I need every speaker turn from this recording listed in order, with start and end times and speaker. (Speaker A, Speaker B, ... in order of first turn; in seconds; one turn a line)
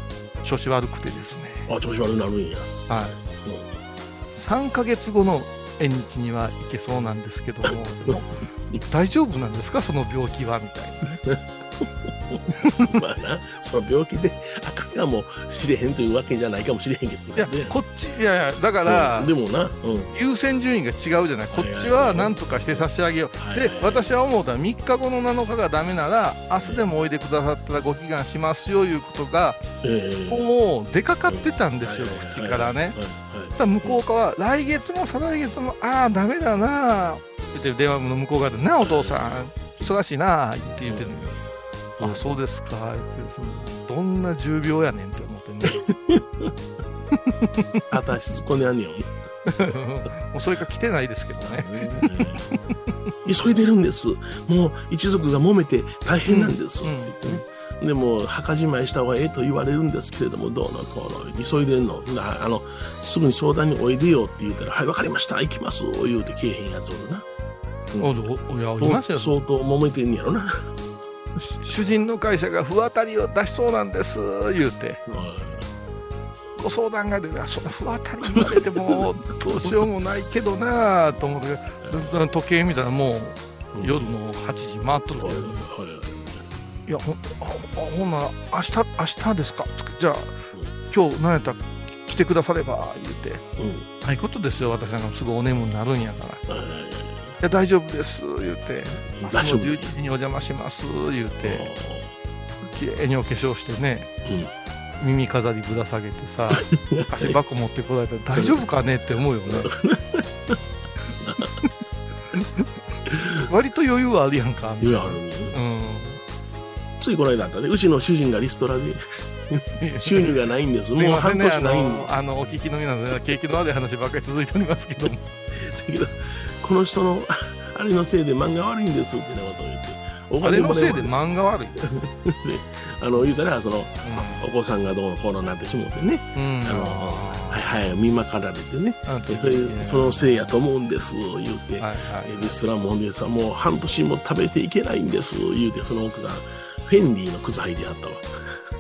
Speaker A: 0.4-1.7
Speaker B: 1.7-2.7
Speaker A: 2.9-3.2
Speaker B: 3.2-3.8
Speaker A: 4.3-11.2
Speaker B: 7.7-8.8
Speaker B: 11.2-17.8
Speaker A: 12.6-12.9
Speaker A: 17.4-19.3
Speaker B: 18.9-20.1
Speaker A: 20.1-29.6
Speaker B: 21.5-24.1
Speaker B: 26.6-26.9
Speaker B: 29.8-30.5
Speaker A: 30.3-33.0
Speaker B: 31.3-34.0
Speaker A: 33.6-41.4
Speaker B: 38.8-39.9
Speaker B: 40.9-41.1
Speaker A: 42.0-45.8
Speaker B: 43.4-43.6
Speaker B: 45.9-46.5
Speaker A: 47.2-47.8
Speaker B: 47.9-49.1
Speaker A: 49.5-52.8
Speaker B: 51.4-52.5
Speaker B: 53.2-67.3
Speaker A: 56.3-57.5
Speaker B: 67.9-68.2
Speaker A: 68.0-69.3
Speaker B: 68.8-70.5
Speaker A: 71.4-75.0
Speaker B: 75.1-75.7
Speaker A: 76.6-85.6
Speaker B: 78.2-79.8
Speaker B: 83.7-84.0
Speaker B: 85.2-86.5
Speaker A: 86.9-90.4
Speaker A: 90.9-93.4
Speaker B: 93.6-93.9
Speaker A: 94.0-96.4
Speaker B: 96.5-97.4
Speaker A: 97.4-101.7
Speaker B: 99.1-99.9
Speaker B: 101.4-102.1
Speaker A: 102.7-104.1
Speaker B: 104.3-104.5
Speaker A: 105.0-109.7
Speaker B: 106.6-107.4
Speaker B: 108.4-108.6
Speaker B: 109.5-110.6
Speaker B: 111.2-111.5
Speaker A: 112.3-112.7
Speaker B: 113.1-113.5
Speaker A: 113.5-116.2
Speaker B: 114.8-115.6
Speaker B: 117.0-122.1
Speaker A: 119.8-120.4
Speaker A: 121.0-125.2
Speaker B: 125.5-131.1
Speaker A: 130.4-131.8
Speaker B: 131.8-148.6
Speaker A: 134.0-134.5
Speaker A: 136.3-137.9
Speaker A: 139.1-140.5
Speaker A: 141.8-142.6